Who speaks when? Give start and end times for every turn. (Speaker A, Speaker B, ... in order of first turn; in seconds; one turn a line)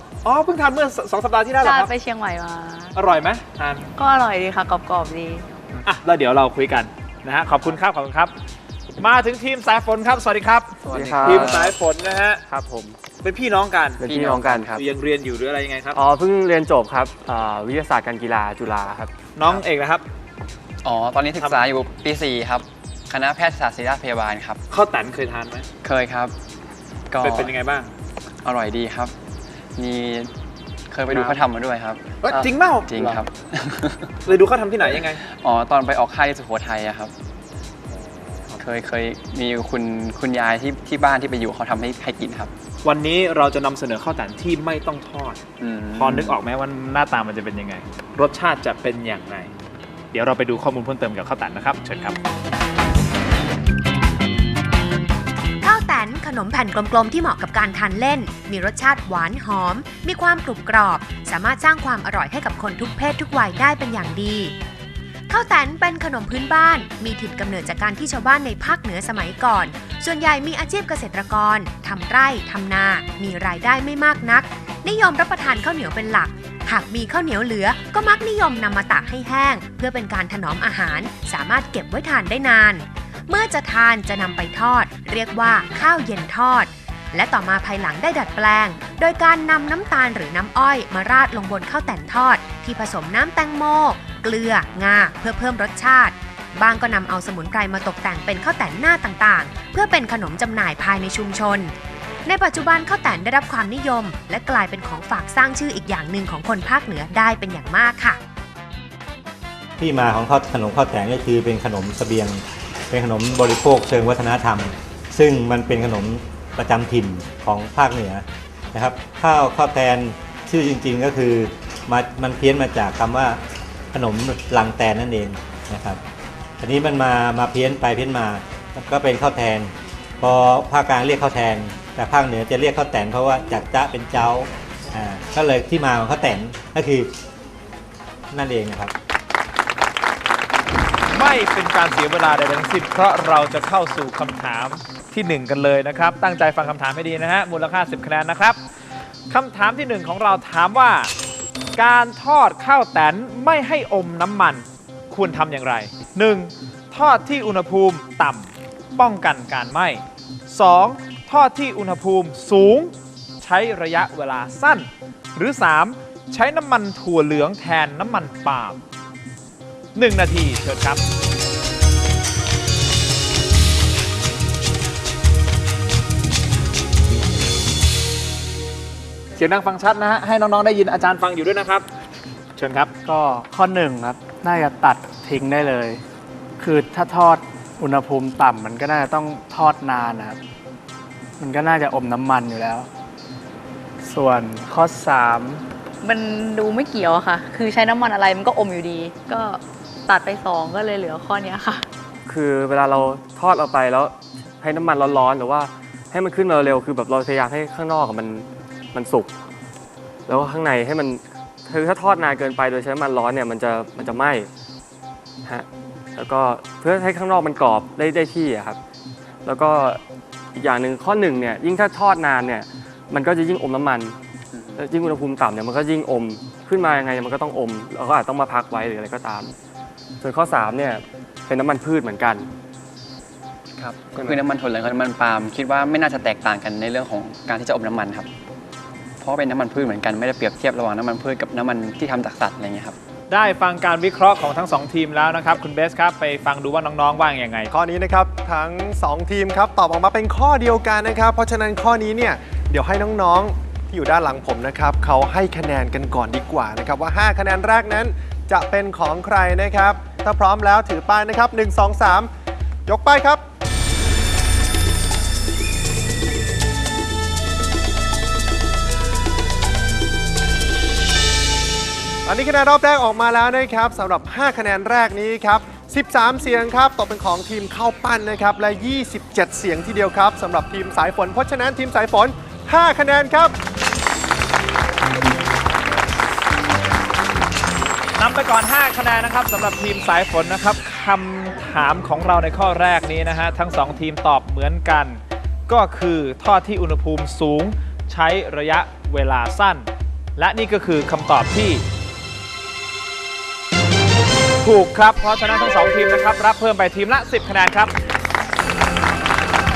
Speaker A: 0.2-1.9
Speaker B: 1.6-3.0
Speaker A: 3.0-3.9
Speaker B: 4.0-5.5
Speaker A: 5.8-8.3
Speaker A: 9.0-12.4
Speaker C: 10.9-11.8
Speaker D: 10.9-11.7
Speaker D: 12.5-13.0
Speaker A: 13.2-14.0
Speaker D: 14.0-14.8
Speaker C: 14.0-14.8
Speaker A: 14.7-16.0
Speaker D: 15.9-19.1
Speaker A: 19.4-20.1
Speaker C: 20.8-24.6
Speaker A: 21.4-21.7
Speaker A: 24.7-25.7
Speaker C: 25.8-26.3
Speaker C: 27.1-27.6
Speaker A: 27.2-27.9
Speaker C: 28.4-29.1
Speaker C: 29.8-30.3
Speaker C: 30.9-34.1
Speaker A: 31.1-31.5
Speaker A: 32.2-33.2
Speaker A: 34.3-35.2
Speaker C: 35.2-37.1
Speaker C: 38.5-42.5
Speaker A: 42.8-45.4
Speaker C: 45.6-46.4
Speaker A: 45.9-49.5
Speaker A: 50.1-52.2
Speaker E: 55.6-64.5
Speaker E: 65.3-101.7
Speaker E: 102.2-108.2
Speaker F: 109.8-123.4
Speaker F: 123.9-126.0
Speaker F: 126.6-137.1
Speaker F: 138.3-138.9
Speaker A: 141.1-148.6
Speaker A: 149.3-151.1
Speaker A: 151.8-168.8
Speaker A: 169.9-171.0
Speaker A: 179.4-181.9
Speaker A: 182.6-182.9
Speaker G: 183.0-186.0
Speaker G: 186.6-190.4
Speaker G: 191.4-192.9
Speaker G: 194.0-195.6
Speaker B: 196.0-201.9
Speaker D: 202.3-209.3
Speaker D: 210.3-214.5
Speaker D: 215.4-218.8
Speaker D: 219.4-220.0
Speaker D: 220.6-224.2
Speaker C: 224.5-224.8
Speaker D: 224.8-229.5
Speaker D: 230.2-232.5
Speaker C: 233.8-238.3
Speaker C: 239.2-243.0
Speaker A: 243.3-247.7
Speaker H: 247.7-262.3
Speaker H: 262.9-263.4
Speaker H: 272.3-283.6
Speaker A: 288.2-301.8
Speaker A: 304.6-307.9